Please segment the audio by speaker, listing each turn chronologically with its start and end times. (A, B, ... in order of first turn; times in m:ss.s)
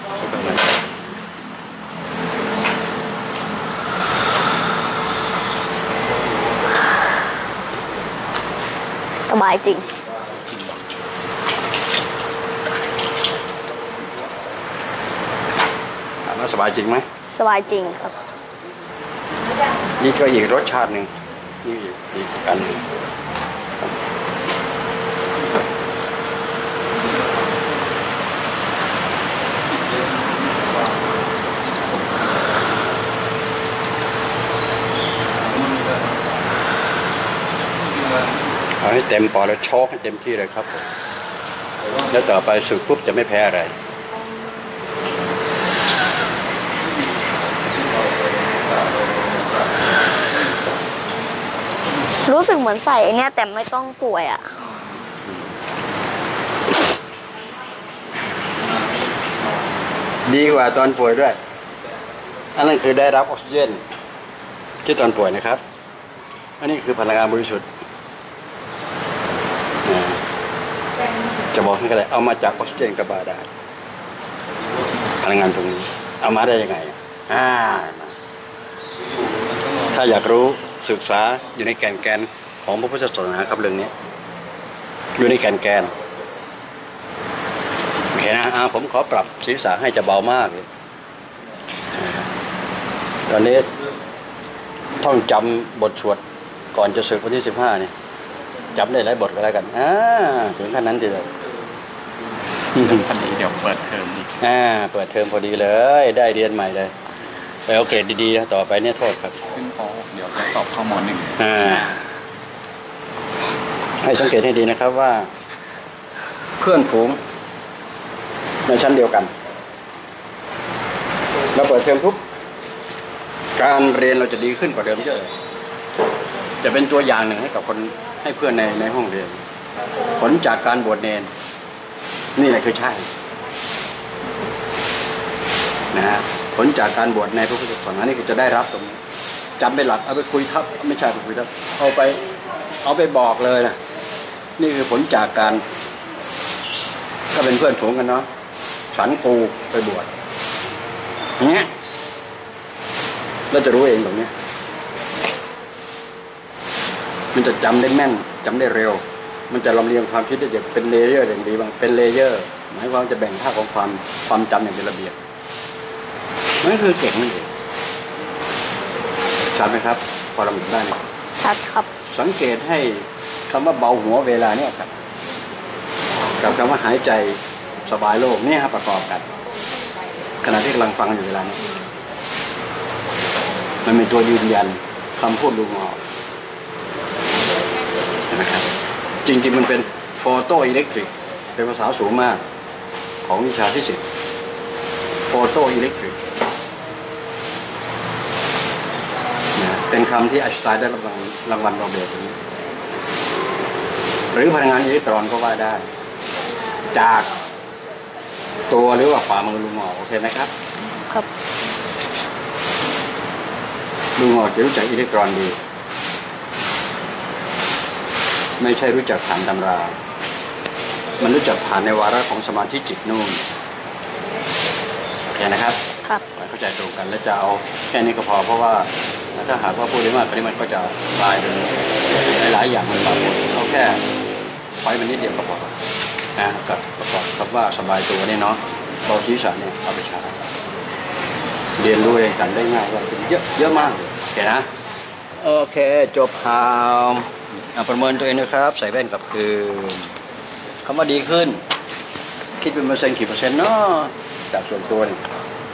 0:00.2-0:00.7 A
0:09.3-0:09.9 B
0:16.2-0:17.1 A
0:17.3-0:18.2 B
0:20.0-0:21.1 A
0:21.6-0:22.8 A
0:38.8-0:40.9 A
0:42.1-0:43.8 A
0:52.2-0:54.7 B
1:00.3-1:01.4 A
1:02.6-1:03.8 A
1:04.8-1:05.6 A
1:06.6-1:07.7 A
1:09.8-1:10.2 A
1:11.5-1:13.5 A
1:15.2-1:18.2 A
1:19.8-1:23.9 A
1:25.2-1:26.0 A
1:28.1-1:30.7 A
1:31.9-1:32.3 A
1:33.3-1:33.7 A
1:35.0-1:36.2 A
1:36.7-1:37.9 A
1:38.8-1:41.3 A
1:42.8-1:43.0 A
1:42.8-1:44.4 C
1:44.4-1:46.9 A
1:47.7-1:49.4 A
1:49.5-1:51.8 C
1:51.4-1:52.0 A
1:54.0-1:55.3 A
1:56.6-1:57.2 A
1:58.7-1:59.3 A
2:01.5-2:02.2 A
2:03.6-2:05.4 A
2:06.6-2:09.4 A
2:10.2-2:11.3 A
2:12.4-2:13.1 A
2:15.9-2:19.0 A
2:19.6-2:22.2 A
2:22.8-2:23.8 A
2:24.6-2:25.6 A
2:27.3-2:28.3 A
2:28.9-2:30.1 A
2:31.4-2:31.7 A
2:33.5-2:34.3 A
2:37.3-2:45.2 A
2:46.6-2:47.5 A
2:49.5-2:51.0 A
2:51.4-2:51.9 B
2:52.1-2:54.9 A
2:56.4-2:59.3 A
3:00.4-3:01.6 A
3:03.8-3:06.0 A
3:08.3-3:08.7 A
3:09.2-3:12.4 A
3:13.2-3:14.0 A
3:15.3-3:16.3 A
3:19.6-3:22.4 A
3:24.3-3:25.9 A
3:26.9-3:27.3 A
3:28.7-3:30.5 A
3:31.0-3:31.3 B
3:34.2-3:35.6 A
3:38.6-3:40.0 A
3:41.2-3:43.4 A
3:45.3-3:45.8 A
3:46.3-3:54.0 A
3:54.8-3:55.8 A
3:56.4-4:00.4 A
4:01.8-4:04.7 A
4:05.4-4:10.1 A
4:10.8-4:11.6 A
4:12.6-4:15.3 A